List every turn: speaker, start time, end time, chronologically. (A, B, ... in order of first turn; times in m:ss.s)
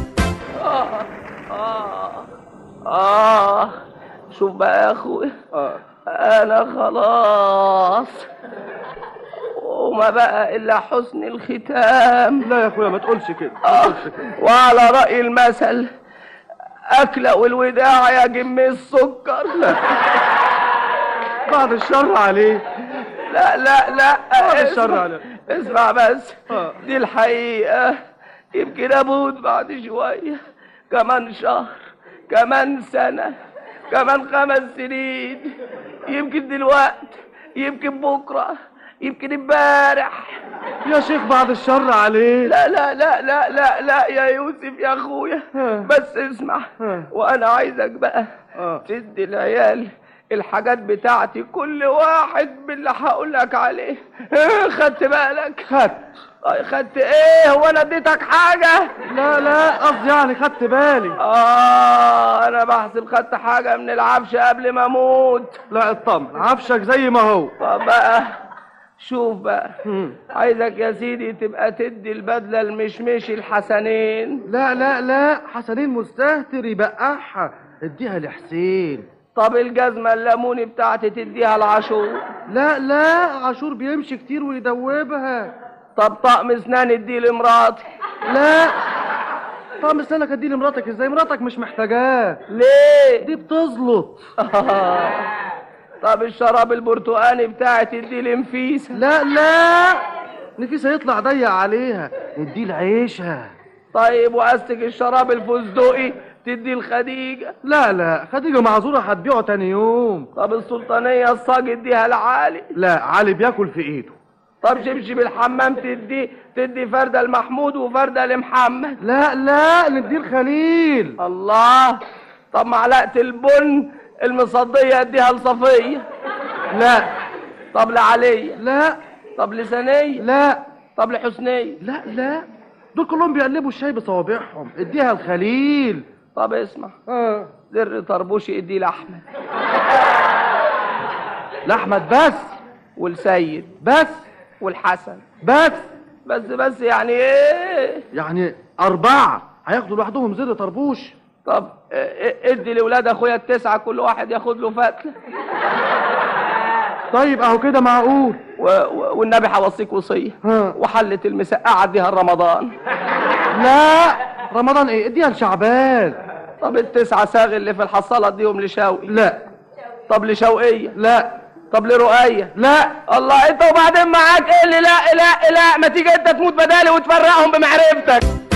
0:00.6-0:02.3 A
0:02.9-0:03.7 A
0:04.3-0:05.3 A
0:06.1-0:08.2 A
0:09.6-0:12.5 A
0:12.4-0:14.3 B
0:13.6-0:15.9 A
0:16.9-0:20.0 A
0:21.5-0:22.6 B
0:23.2-0:28.0 A
0:24.4-0:25.2 B
0:26.5-0:26.8 B
0:28.5-0:30.4 A
0:30.9-0:31.7 A
0:32.3-0:33.4 A
0:33.9-0:35.5 A
0:36.0-0:40.4 A
0:40.8-0:42.5 B
0:42.4-0:48.3 A
0:45.5-0:45.9 B
0:46.8-0:47.1 B
0:48.9-0:55.7 A
0:55.7-0:56.0 B
0:56.4-0:58.9 A
0:59.1-1:01.2 B
1:01.2-1:05.6 A
1:05.7-1:07.5 B
1:07.6-1:08.3 A
1:09.0-1:09.7 A
1:09.8-1:10.2 B
1:10.3-1:14.4 A
1:14.5-1:19.0 B
1:19.4-1:22.2 A
1:22.5-1:25.5 B
1:26.0-1:27.8 A
1:28.3-1:28.9 B
1:29.8-1:32.4 B
1:32.5-1:33.3 A
1:33.2-1:34.2 B
1:34.4-1:35.3 A
1:36.0-1:39.0 A
1:38.9-1:40.0 B
1:40.6-1:43.5 B
1:43.9-1:47.5 A
1:47.6-1:50.3 B
1:50.4-1:52.7 A
1:52.8-1:54.2 B
1:54.6-1:59.0 A
1:59.0-2:01.2 B
2:01.2-2:02.0 A
2:02.5-2:06.1 A
2:06.7-2:07.1 B
2:07.7-2:08.6 A
2:08.6-2:09.0 B
2:09.4-2:10.3 A
2:10.2-2:10.6 B
2:11.0-2:11.8 A
2:11.8-2:16.0 B
2:16.3-2:17.0 A
2:17.1-2:17.5 B
2:17.7-2:19.2 A
2:21.7-2:22.6 B
2:23.0-2:23.7 A
2:23.8-2:24.2 B
2:24.6-2:25.2 A
2:25.4-2:25.9 B
2:26.2-2:28.0 A
2:28.1-2:31.1 B
2:31.4-2:35.1 A
2:37.1-2:38.4 B
2:38.6-2:42.7 A
2:40.4-2:40.8 B
2:43.5-2:46.2 B
2:46.6-2:49.2 A
2:49.1-2:49.4 B
2:50.1-2:51.0 A
2:51.0-2:51.3 B
2:51.7-2:52.5 A
2:52.6-2:53.0 B
2:53.1-2:58.2 A